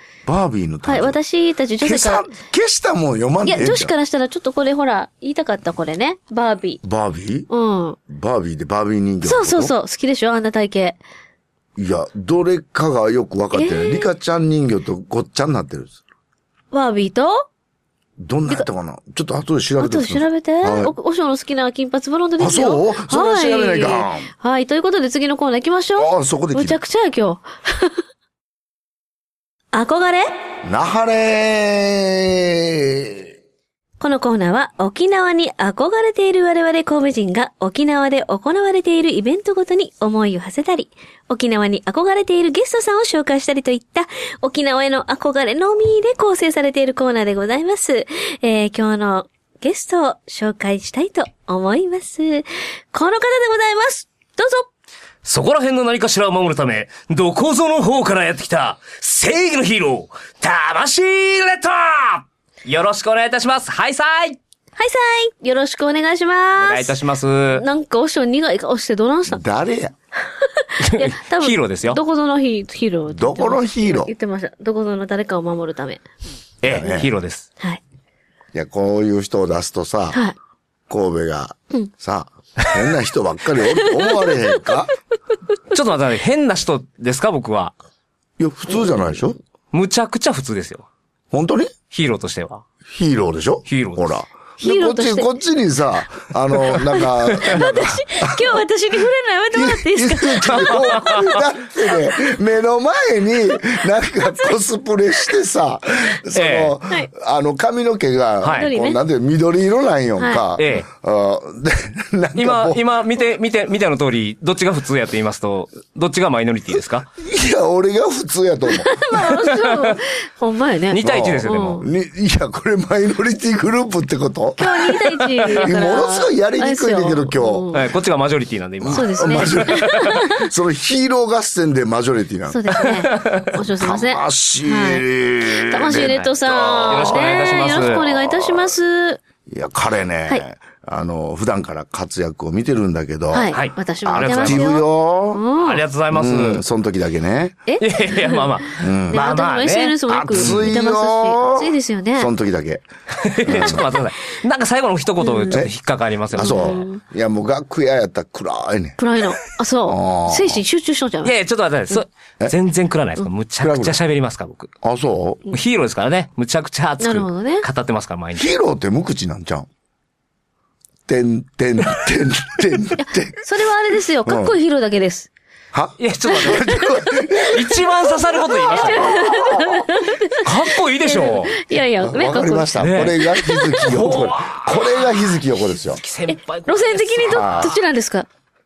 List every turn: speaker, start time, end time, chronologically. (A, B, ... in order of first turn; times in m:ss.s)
0:00.3-0:01.2 A
0:00.8-0:02.3 B
0:01.8-0:03.9 A
0:03.4-0:06.8 B
0:06.8-0:07.5 A
0:07.5-0:08.0 B
0:08.1-0:09.7 A
0:09.2-0:11.0 B
0:11.8-0:16.0 A
0:13.5-0:14.1 B
0:16.7-0:17.5 B
0:18.2-0:20.9 A
0:19.8-0:28.0 B
0:22.4-0:24.3 A
0:26.0-0:26.8 A
0:29.7-0:30.3 B
0:30.6-0:33.3 A
0:34.0-0:54.7 B
0:55.2-1:04.4 C
1:04.8-1:07.0 B
1:06.6-1:07.7 C
1:07.5-1:09.4 B
1:09.3-1:09.9 A
1:10.4-1:16.0 B
1:10.8-1:12.0 C
1:13.1-1:14.1 A
1:16.6-1:17.5 C
1:16.6-1:17.1 A
1:18.5-1:20.2 A
1:20.9-1:24.9 A
1:23.7-1:24.6 B
1:25.7-1:27.7 C
1:28.4-1:29.4 A
1:29.7-1:30.9 C
1:31.3-1:31.7 A
1:31.9-1:32.6 C
1:32.9-1:38.6 A
1:33.7-1:34.2 C
1:34.6-1:35.3 B
1:36.7-1:41.2 B
1:39.5-1:52.8 A
1:40.5-1:41.4 C
1:44.2-1:44.5 B
1:46.3-1:46.7 C
1:48.4-1:48.7 C
1:48.5-1:49.0 B
1:50.6-1:50.9 C
1:52.4-1:57.1 C
1:57.2-1:58.9 A
1:58.7-2:01.8 B
1:59.2-2:00.0 C
2:00.9-2:01.8 C
2:01.0-2:07.7 A
2:04.6-2:07.9 B
2:07.7-2:10.2 C
2:08.8-2:12.7 A
2:08.9-2:10.5 B
2:12.5-2:19.2 B
2:12.8-2:13.5 C
2:13.8-2:16.2 A
2:15.9-2:18.1 C
2:16.9-2:18.7 A
2:19.5-2:23.5 A
2:23.3-2:25.8 B
2:23.5-2:24.7 C
2:24.0-2:25.4 A
2:25.6-2:26.6 C
2:26.1-2:27.6 A
2:27.7-2:32.3 B
2:27.8-2:30.6 C
2:28.8-2:29.3 A
2:30.1-2:32.8 A
2:33.2-2:36.8 C
2:33.4-2:33.9 A
2:35.2-2:35.7 B
2:36.3-2:39.0 A
2:36.4-2:37.0 B
2:39.0-2:41.3 B
2:39.9-2:40.6 A
2:41.2-2:44.7 C
2:43.6-2:44.0 A
2:44.8-2:45.4 A
2:45.5-2:48.5 C
2:47.0-2:47.7 B
2:48.4-2:49.7 A
2:51.1-2:53.4 A
2:53.0-2:55.3 B
2:54.3-2:54.5 A
2:55.7-2:57.9 A
2:56.0-2:56.8 C
2:56.3-2:57.5 B
2:57.5-2:59.5 C
2:58.1-3:04.2 B
2:58.5-2:59.9 A
3:00.3-3:01.6 C
3:02.0-3:06.0 A
3:02.8-3:03.2 C
3:03.8-3:05.0 C
3:05.9-3:07.7 C
3:06.3-3:08.3 B
3:07.3-3:07.8 A